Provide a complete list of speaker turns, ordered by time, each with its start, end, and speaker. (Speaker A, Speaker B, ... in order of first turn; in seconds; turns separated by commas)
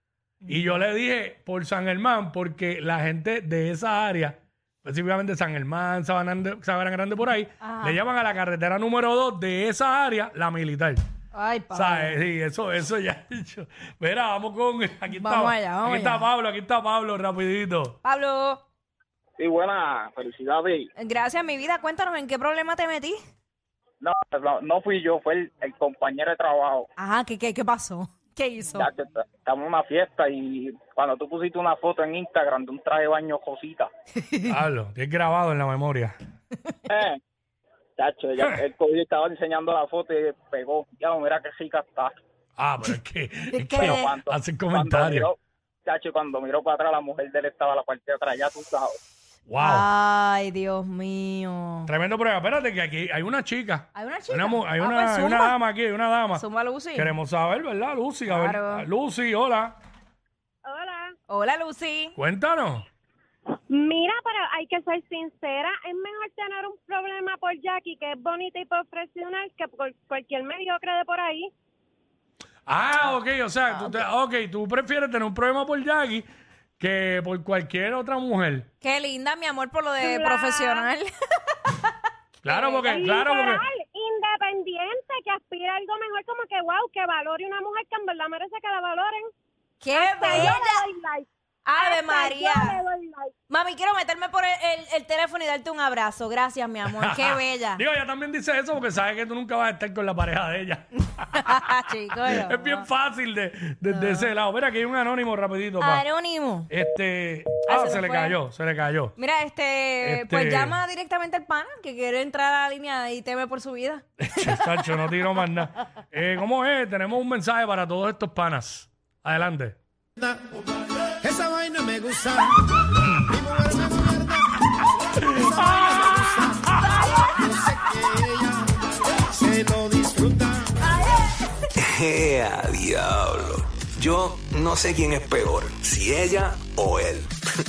Speaker A: 0.4-0.8, Speaker B: 0.5-11.0, Speaker A: 7.6-8.0, Speaker A: 11.3-12.2, Speaker B: 11.7-18.0, Speaker A: 15.1-16.3, Speaker A: 18.0-18.6, Speaker C: 19.4-20.9, Speaker A: 21.0-23.2, Speaker C: 24.0-26.9, Speaker A: 27.0-28.9, Speaker C: 28.8-33.9, Speaker A: 34.2-34.5, Speaker B: 34.5-36.1, Speaker C: 36.9-37.2, Speaker C: 38.0-42.1, Speaker B: 42.6-45.3, Speaker A: 43.5-44.1, Speaker C: 43.7-45.4, Speaker C: 45.9-49.0, Speaker B: 49.5-49.9, Speaker A: 49.6-51.9, Speaker B: 51.9-59.8, Speaker A: 54.0-55.5, Speaker A: 56.3-57.1, Speaker A: 58.3-58.9, Speaker D: 60.6-61.1, Speaker A: 61.3-62.1, Speaker B: 62.2-62.9, Speaker D: 63.7-71.5, Speaker B: 72.7-76.2, Speaker B: 76.8-78.7, Speaker A: 78.8-81.9, Speaker D: 80.0-80.9, Speaker B: 82.4-83.6, Speaker D: 82.5-89.3, Speaker A: 89.8-90.8, Speaker D: 89.9-93.3, Speaker A: 91.6-92.8, Speaker A: 93.5-97.8, Speaker B: 96.9-106.0, Speaker A: 101.3-102.9, Speaker A: 103.9-104.3, Speaker A: 105.8-106.7, Speaker B: 106.7-109.2, Speaker A: 107.7-108.4, Speaker A: 109.2-114.0, Speaker B: 110.0-110.8, Speaker B: 114.2-119.8, Speaker E: 121.2-122.5, Speaker E: 123.3-124.4, Speaker B: 125.3-125.9, Speaker E: 125.5-128.5, Speaker E: 129.3-130.6, Speaker F: 131.8-137.4